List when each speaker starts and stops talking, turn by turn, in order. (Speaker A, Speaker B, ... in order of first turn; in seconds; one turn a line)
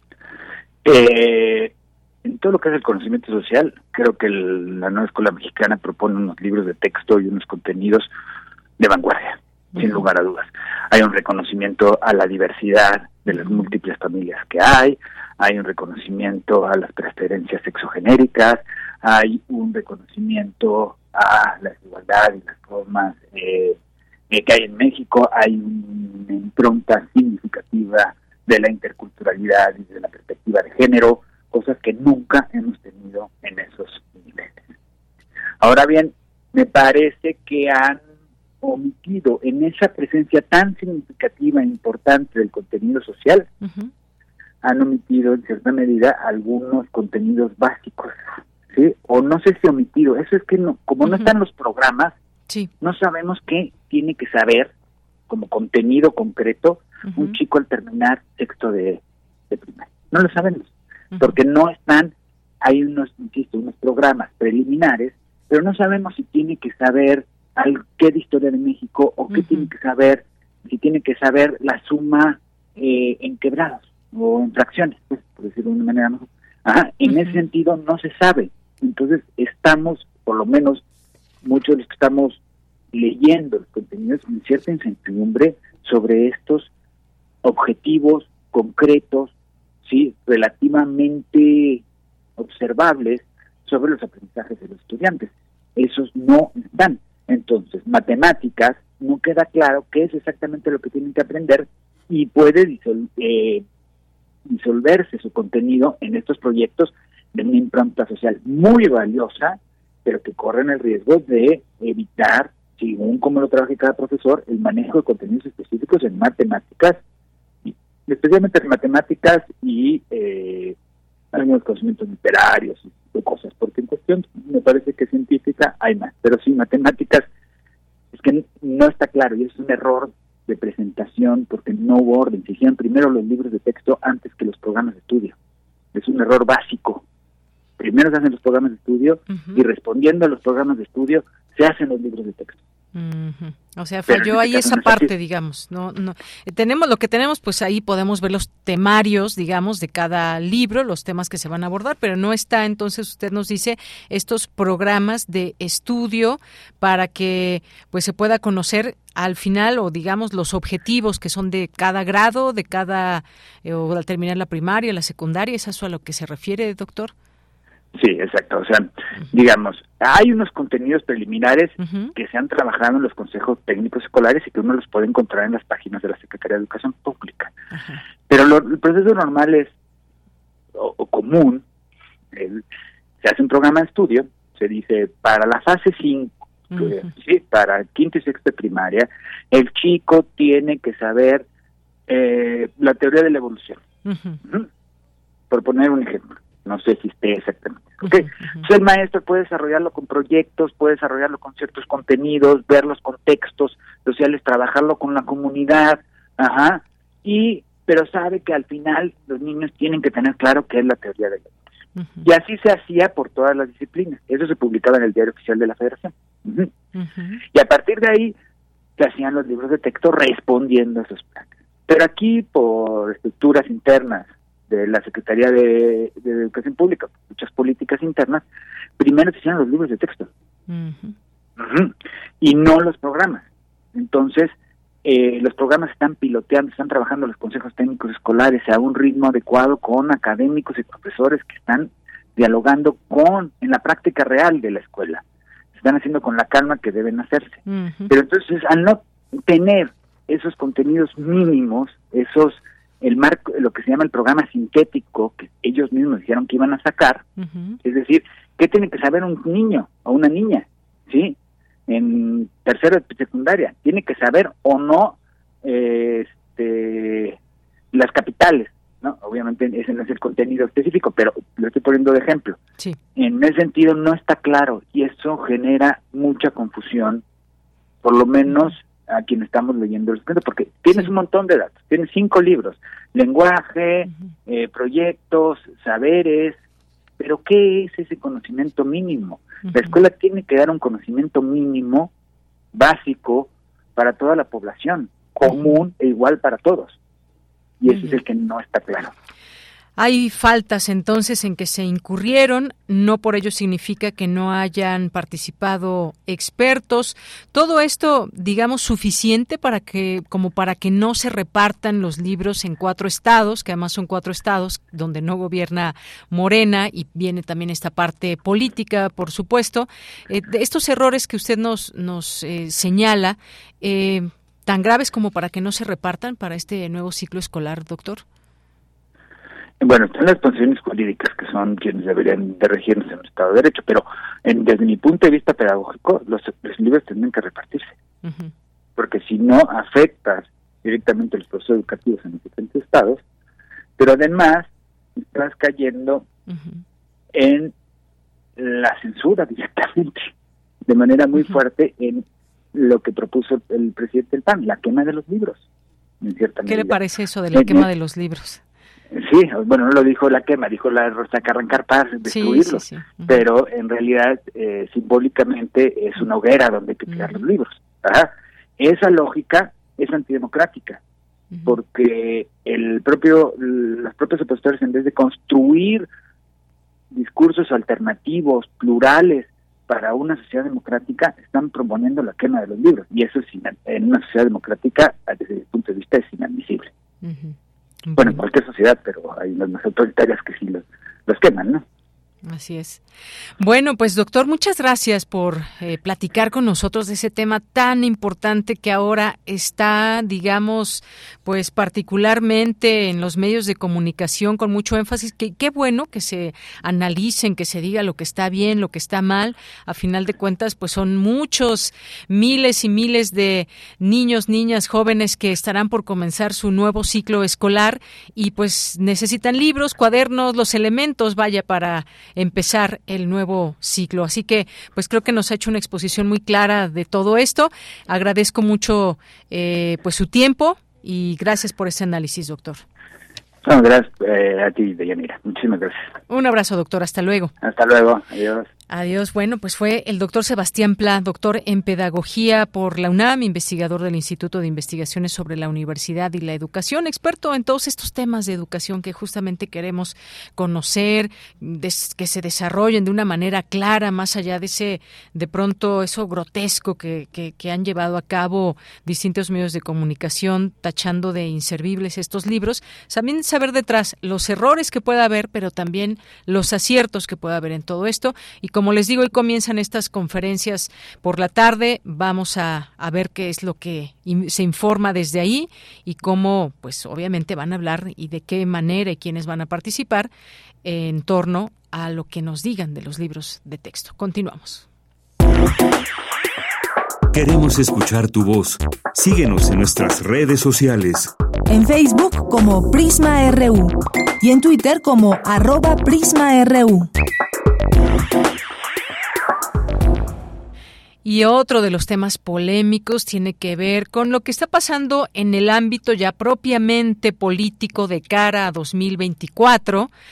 Speaker A: 0.8-1.7
Speaker A: 2.2-8.1
Speaker A: 8.8-23.8
Speaker A: 24.3-34.6
Speaker A: 35.6-38.0
Speaker A: 38.6-43.5
Speaker B: 43.6-43.9
Speaker A: 44.6-52.1
Speaker B: 51.1-51.3
Speaker A: 52.8-54.7
Speaker A: 55.3-80.8
Speaker B: 57.1-57.4
Speaker B: 69.3-69.7
Speaker A: 81.4-82.4
Speaker A: 82.9-86.7
Speaker A: 87.4-89.3
Speaker A: 89.8-91.8
Speaker A: 92.4-103.6
Speaker A: 104.5-117.0
Speaker A: 117.7-120.8
Speaker A: 121.3-127.2
Speaker A: 128.1-135.4
Speaker A: 135.9-137.0
Speaker A: 137.8-142.6
Speaker B: 139.3-139.6
Speaker B: 142.9-167.1
Speaker A: 144.1-145.1
Speaker A: 168.0-177.5
Speaker B: 171.8-172.1
Speaker B: 177.8-178.0
Speaker A: 178.3-179.7
Speaker A: 180.8-181.6
Speaker A: 182.3-182.6
Speaker A: 183.2-191.4
Speaker B: 186.7-187.1
Speaker A: 192.1-193.8
Speaker B: 194.0-194.4
Speaker A: 195.5-211.5
Speaker B: 198.0-198.7
Speaker B: 212.0-212.3
Speaker A: 212.2-216.7
Speaker B: 217.0-217.4
Speaker A: 217.5-218.3
Speaker A: 219.0-228.4
Speaker A: 229.0-230.3
Speaker B: 230.7-231.2
Speaker A: 231.6-234.5
Speaker A: 235.0-245.2
Speaker A: 245.8-257.2
Speaker B: 247.7-248.1
Speaker B: 257.4-257.8
Speaker A: 257.8-261.4
Speaker A: 261.9-267.4
Speaker A: 267.9-272.6
Speaker A: 273.1-277.2
Speaker A: 278.0-286.6
Speaker A: 287.2-292.1
Speaker B: 289.7-289.9
Speaker A: 292.7-297.0
Speaker B: 295.5-295.8
Speaker A: 297.8-299.1
Speaker B: 297.9-298.2
Speaker B: 300.0-328.2
Speaker A: 329.8-337.9
Speaker B: 338.2-338.5
Speaker A: 339.0-343.2
Speaker A: 344.0-346.2
Speaker B: 346.5-346.8
Speaker A: 347.3-347.7
Speaker A: 348.6-350.3
Speaker A: 350.9-355.6
Speaker A: 356.2-357.0
Speaker B: 356.7-358.6
Speaker A: 357.5-357.9
Speaker A: 359.1-371.0
Speaker B: 362.3-363.4
Speaker B: 367.1-367.4
Speaker B: 371.5-371.8
Speaker A: 371.6-376.1
Speaker A: 377.1-386.9
Speaker B: 387.2-388.4
Speaker A: 388.2-391.8
Speaker B: 392.5-393.0
Speaker B: 393.6-432.8
Speaker A: 433.6-436.0
Speaker B: 436.3-437.5
Speaker A: 437.6-438.7
Speaker B: 438.9-480.3
Speaker B: 480.8-484.9
Speaker C: 487.3-491.3
Speaker D: 491.7-497.1
Speaker B: 501.2-510.1